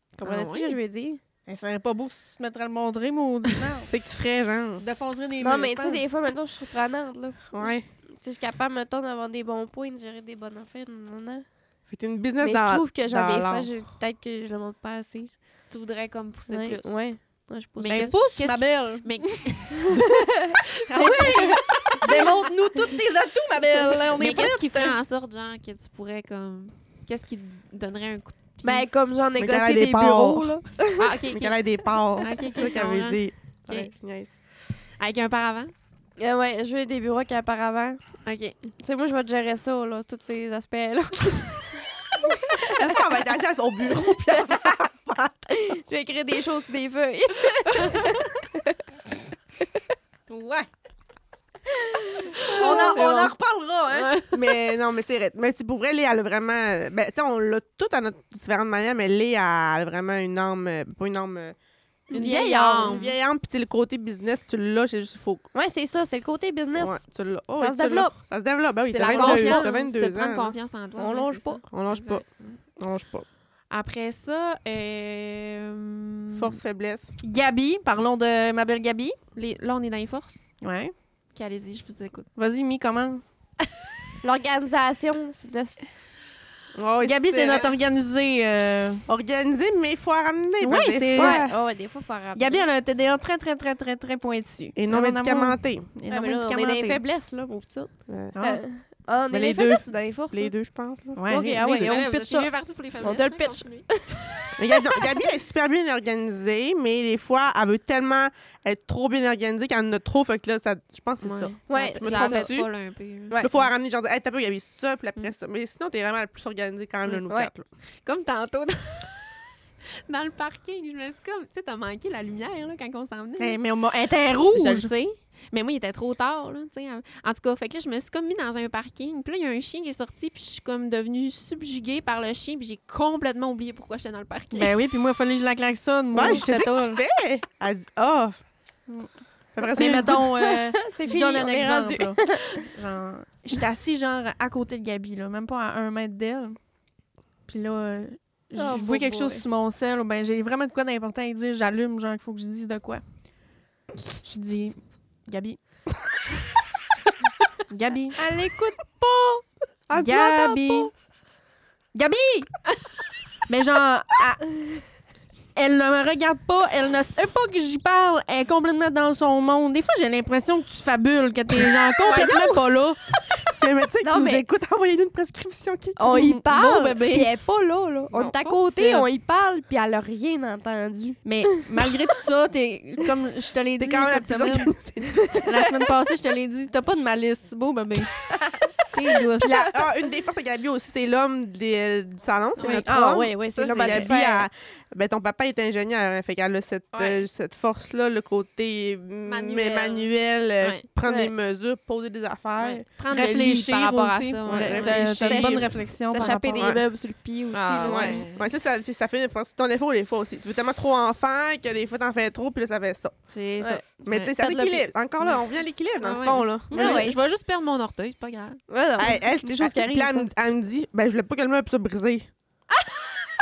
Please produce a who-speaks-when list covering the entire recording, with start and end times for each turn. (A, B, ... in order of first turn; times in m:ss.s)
0:00.2-0:00.8 A
0:00.2-0:01.2 B
0:01.4-0:03.9 C
0:03.9-0:04.8 D
0:04.8-0:06.0 C
0:05.4-0:11.5 B
0:07.5-0:07.9 D
0:11.9-0:13.7 D
0:12.4-0:15.4 B
0:15.7-0:20.0 A
0:16.5-0:18.2 B
0:17.9-0:19.5 C
0:20.9-0:24.9 C
0:21.0-0:22.0 A
0:21.2-0:22.0 B
0:24.2-0:28.8 A
0:28.6-0:31.2 B
0:29.4-0:30.6 D
0:31.0-0:33.9 A
0:31.3-0:34.3 D
0:32.4-0:32.7 B
0:35.0-0:35.7 A
0:36.2-0:38.2 B
0:38.2-0:38.7 A
0:38.8-0:41.7 B
0:42.3-0:43.0 B
0:42.7-0:45.5 D
0:44.3-0:44.7 B
0:45.6-0:48.6 B
0:50.3-0:50.6 C
0:52.1-0:53.0 B
0:52.4-0:53.1 A
0:52.5-0:54.1 C
0:52.6-0:53.3 D
0:53.9-0:54.4 A
0:54.3-1:01.6 D
1:02.1-1:03.0 B
1:02.1-1:03.2 A
1:02.8-1:05.4 D
1:05.5-1:07.0 B
1:06.7-1:10.6 D
1:07.6-1:08.1 B
1:08.9-1:12.6 A
1:09.0-1:09.6 C
1:11.0-1:11.6 B
1:11.7-1:12.2 D
1:12.8-1:13.2 D
1:13.7-1:16.6 A
1:16.3-1:17.1 D
1:17.2-1:19.2 C
1:19.3-1:20.4 A
1:20.6-1:20.9 C
1:21.3-1:22.3 A
1:22.4-1:23.2 C
1:24.2-1:25.8 B
1:26.7-1:27.7 D
1:27.0-1:29.0 C
1:29.1-1:31.6 D
1:30.6-1:31.4 C
1:31.2-1:32.6 B
1:32.3-1:37.0 C
1:34.7-1:35.9 D
1:36.1-1:40.5 B
1:38.1-1:38.3 D
1:38.3-1:38.6 C
1:39.3-1:41.2 D
1:41.1-1:42.0 C
1:41.2-1:45.2 B
1:41.8-1:44.1 A
1:44.6-1:52.7 D
1:51.2-1:53.7 A
1:51.7-1:52.5 B
1:53.4-1:57.7 D
1:58.0-1:59.4 A
2:00.1-2:03.6 A
2:03.4-2:04.9 C
2:04.5-2:14.8 A
2:14.5-2:17.0 C
2:16.1-2:18.4 D
2:18.9-2:26.6 C
2:19.5-2:20.2 D
2:20.5-2:22.6 B
2:27.4-2:33.2 C
2:28.6-2:29.4 B
2:34.2-2:35.6 C
2:37.7-2:38.2 C
2:38.2-2:40.9 B
2:39.9-2:40.9 C
2:41.9-2:42.6 C
2:43.5-2:44.8 C
2:45.5-2:53.0 C
2:52.1-2:52.6 A
2:52.1-2:52.4 D
2:53.3-2:56.3 D
2:54.0-2:54.4 B
2:56.0-3:01.3 B
2:56.1-2:57.3 C
2:58.1-2:59.1 A
3:01.2-3:04.8 C
3:03.8-3:05.4 D
3:05.2-3:05.5 B
3:05.4-3:08.1 C
3:08.9-3:09.7 C
3:09.4-3:22.8 D
3:12.6-3:12.8 A
3:12.6-3:14.5 B
3:13.5-3:14.1 A
3:16.9-3:17.2 A
3:19.2-3:20.8 A
3:21.0-3:21.3 B
3:22.6-3:25.5 A
3:23.1-3:26.7 C
3:24.4-3:25.7 D
3:25.2-3:28.2 B
3:26.5-3:26.8 D
3:27.5-3:28.5 A
3:27.8-3:33.2 D
3:33.3-3:34.3 A
3:33.6-3:34.8 B
3:34.0-3:37.0 D
3:35.2-3:35.4 A
3:36.0-3:38.6 A
3:36.7-3:37.1 B
3:38.7-3:40.3 B
3:39.0-3:42.3 D